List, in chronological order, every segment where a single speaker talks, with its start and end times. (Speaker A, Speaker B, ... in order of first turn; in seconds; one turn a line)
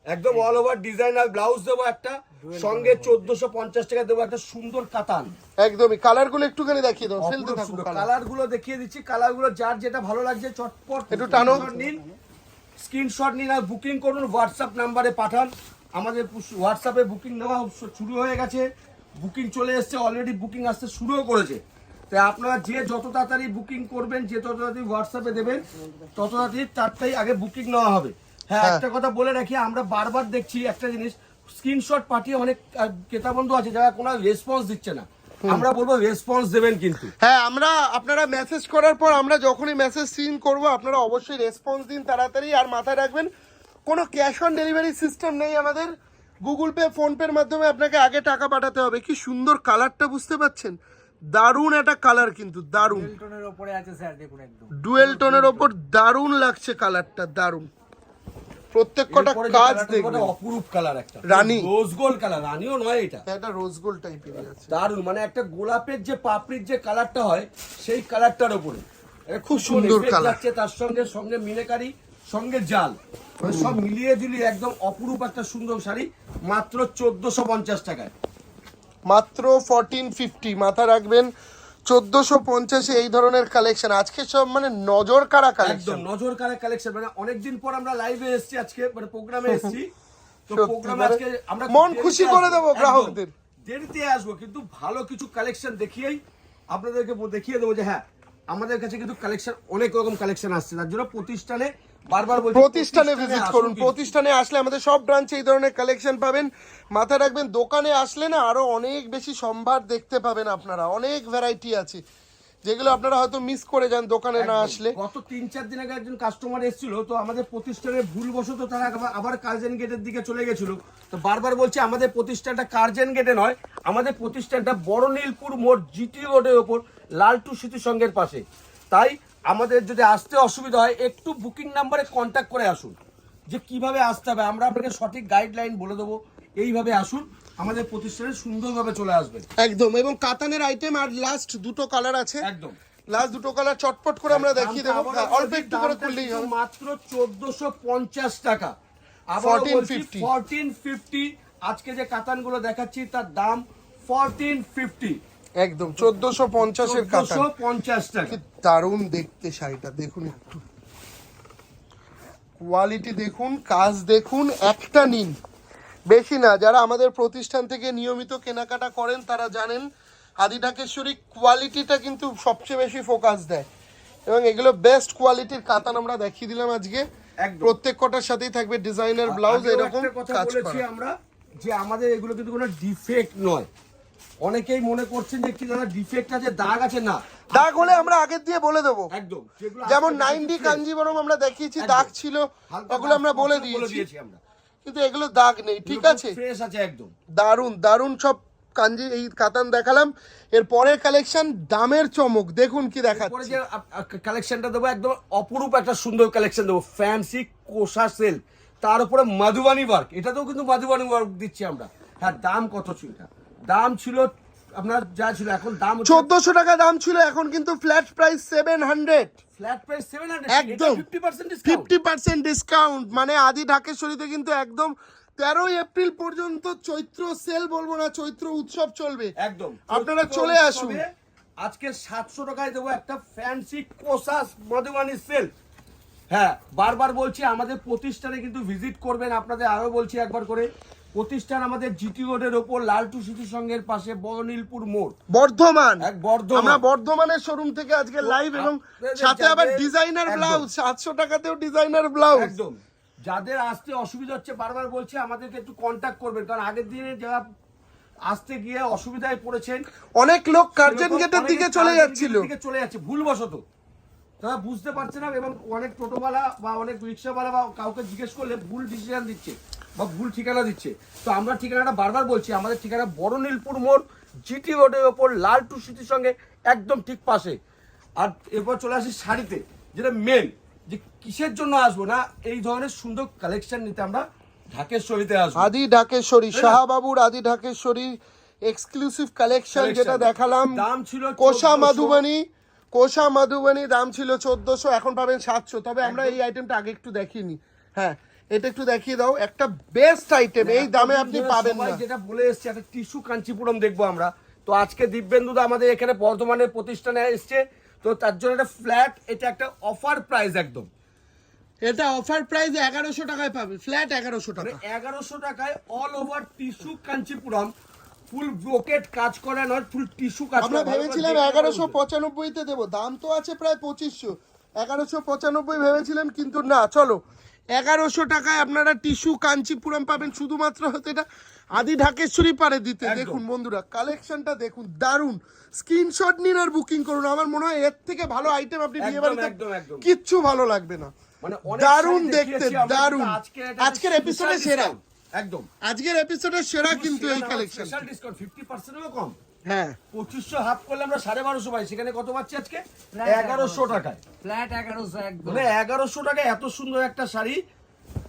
Speaker A: 0.1-5.3
Speaker B: 2.4-3.2
Speaker C: 5.6-8.1
Speaker A: 7.2-12.0
Speaker C: 11.1-11.7
Speaker B: 11.3-12.1
Speaker A: 12.8-18.7
Speaker A: 19.2-37.1
Speaker C: 37.2-43.3
Speaker C: 43.9-50.7
Speaker C: 51.3-53.1
Speaker B: 52.8-55.6
Speaker C: 54.7-57.7
Speaker C: 58.7-60.3
Speaker A: 59.1-63.2
Speaker C: 61.3-61.7
Speaker C: 63.2-64.7
Speaker A: 64.7-78.1
Speaker C: 69.5-70.4
Speaker C: 73.4-73.8
Speaker C: 79.1-81.3
Speaker C: 81.8-86.0
Speaker A: 85.6-89.9
Speaker C: 89.5-89.8
Speaker A: 90.5-96.2
Speaker C: 90.5-93.3
Speaker A: 96.7-104.1
Speaker C: 102.5-112.0
Speaker C: 112.6-114.9
Speaker A: 114.3-132.9
Speaker A: 133.5-139.4
Speaker C: 139.6-142.4
Speaker A: 142.4-142.8
Speaker C: 143.1-146.5
Speaker A: 144.3-148.7
Speaker A: 149.3-155.2
Speaker C: 149.4-150.3
Speaker C: 155.6-157.4
Speaker A: 156.7-158.4
Speaker C: 158.3-160.6
Speaker C: 162.6-165.3
Speaker C: 166.1-169.8
Speaker C: 170.4-173.7
Speaker C: 174.3-177.0
Speaker A: 177.4-177.7
Speaker C: 177.6-180.8
Speaker A: 179.3-183.7
Speaker A: 184.4-188.1
Speaker C: 187.5-189.1
Speaker A: 189.1-190.8
Speaker C: 189.8-194.1
Speaker A: 191.8-192.1
Speaker A: 192.7-194.4
Speaker C: 194.8-196.4
Speaker A: 195.8-197.1
Speaker C: 197.3-203.6
Speaker A: 203.1-216.3
Speaker C: 216.0-219.4
Speaker A: 219.6-221.9
Speaker C: 220.5-221.0
Speaker C: 221.6-229.3
Speaker A: 229.4-231.1
Speaker C: 229.9-231.0
Speaker A: 231.6-235.5
Speaker A: 236.3-245.1
Speaker C: 245.3-252.5
Speaker A: 246.0-246.8
Speaker A: 248.2-250.7
Speaker A: 252.3-257.4
Speaker A: 258.2-259.8
Speaker C: 260.2-262.5
Speaker A: 260.8-263.6
Speaker A: 264.4-277.6
Speaker A: 278.2-285.7
Speaker C: 285.6-290.9
Speaker A: 286.5-286.8
Speaker A: 289.7-292.2
Speaker C: 291.4-302.0
Speaker A: 296.0-296.4
Speaker A: 300.6-310.9
Speaker C: 311.8-314.8
Speaker A: 314.6-317.7
Speaker A: 318.3-321.9
Speaker C: 320.6-327.2
Speaker C: 327.7-341.1
Speaker A: 333.0-333.4
Speaker A: 339.0-340.1
Speaker A: 341.4-345.7
Speaker C: 341.7-344.9
Speaker C: 345.8-348.1
Speaker A: 346.9-349.4
Speaker C: 349.6-350.0
Speaker A: 350.1-354.2
Speaker B: 353.1-355.7
Speaker A: 355.4-357.6